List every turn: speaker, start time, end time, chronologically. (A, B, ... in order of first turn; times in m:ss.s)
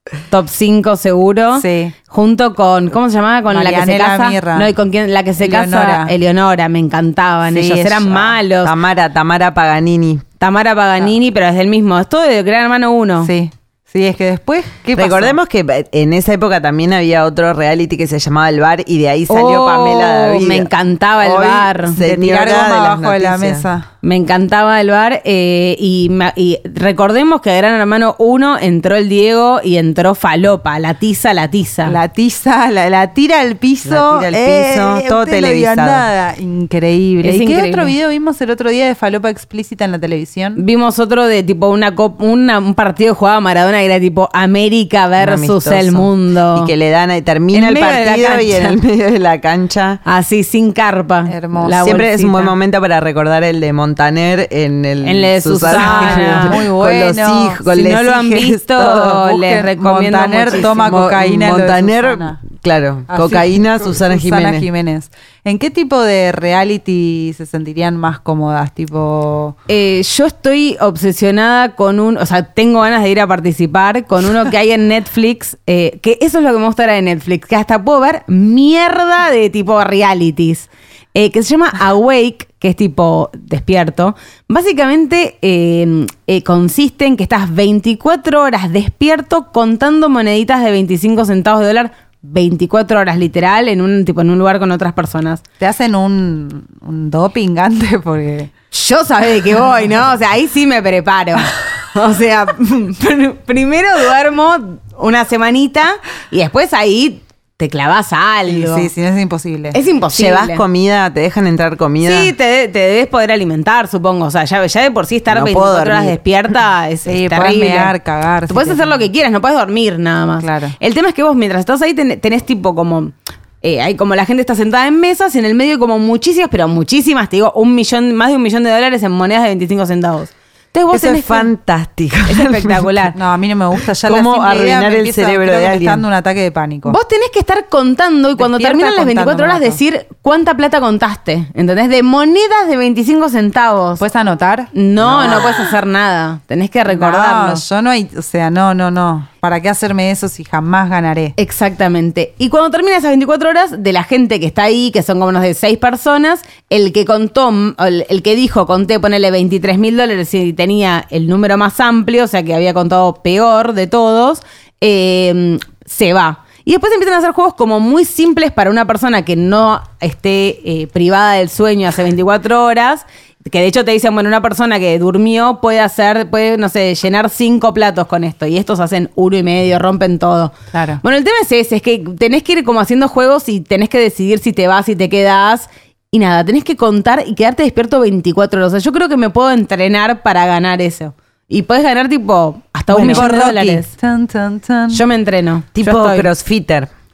0:00.3-0:08.7 A
0:01.6-0:02.0 B
0:03.5-0:04.7 B
0:05.4-0:06.1 B
0:07.5-0:08.4 B
0:08.6-0:10.2 C
0:10.4-0:13.3 A
0:13.2-0:15.4 B
0:15.0-0:23.7 C
0:19.3-0:22.0 A
0:22.0-0:23.9 B
0:24.0-0:32.0 A
0:31.8-0:40.6 B
0:33.8-0:36.0 C
0:37.2-0:37.9 A
0:40.6-0:46.7 A
0:45.2-0:50.0 C
0:47.5-0:48.8 A
0:50.0-0:52.5 A
0:51.3-0:51.9 B
0:51.8-0:59.2 C
0:55.0-0:56.6 A
0:55.7-0:57.6 B
0:57.7-1:00.9 A
0:59.0-1:02.4 B
1:00.7-1:04.7 C
1:03.1-1:09.6 B
1:09.7-1:35.4 A
1:35.6-1:38.5 B
1:38.7-1:48.9 A
1:48.5-1:49.8 B
1:49.7-1:50.6 A
1:50.1-1:52.3 C
1:52.0-1:57.9 A
1:55.3-1:56.2 C
1:57.0-1:59.0 B
1:58.5-2:11.5 A
2:00.4-2:00.8 B
2:10.9-2:12.9 C
2:12.3-2:13.2 A
2:13.1-2:17.0 B
2:14.0-2:16.0 C
2:16.8-2:24.0 A
2:18.4-2:19.8 B
2:24.0-2:25.7 B
2:24.7-2:27.6 A
2:25.0-2:25.4 C
2:26.9-2:31.3 B
2:31.4-3:13.9 A
3:00.7-3:01.0 B
3:12.9-3:15.0 B
3:14.9-3:16.3 A
3:15.7-3:16.9 C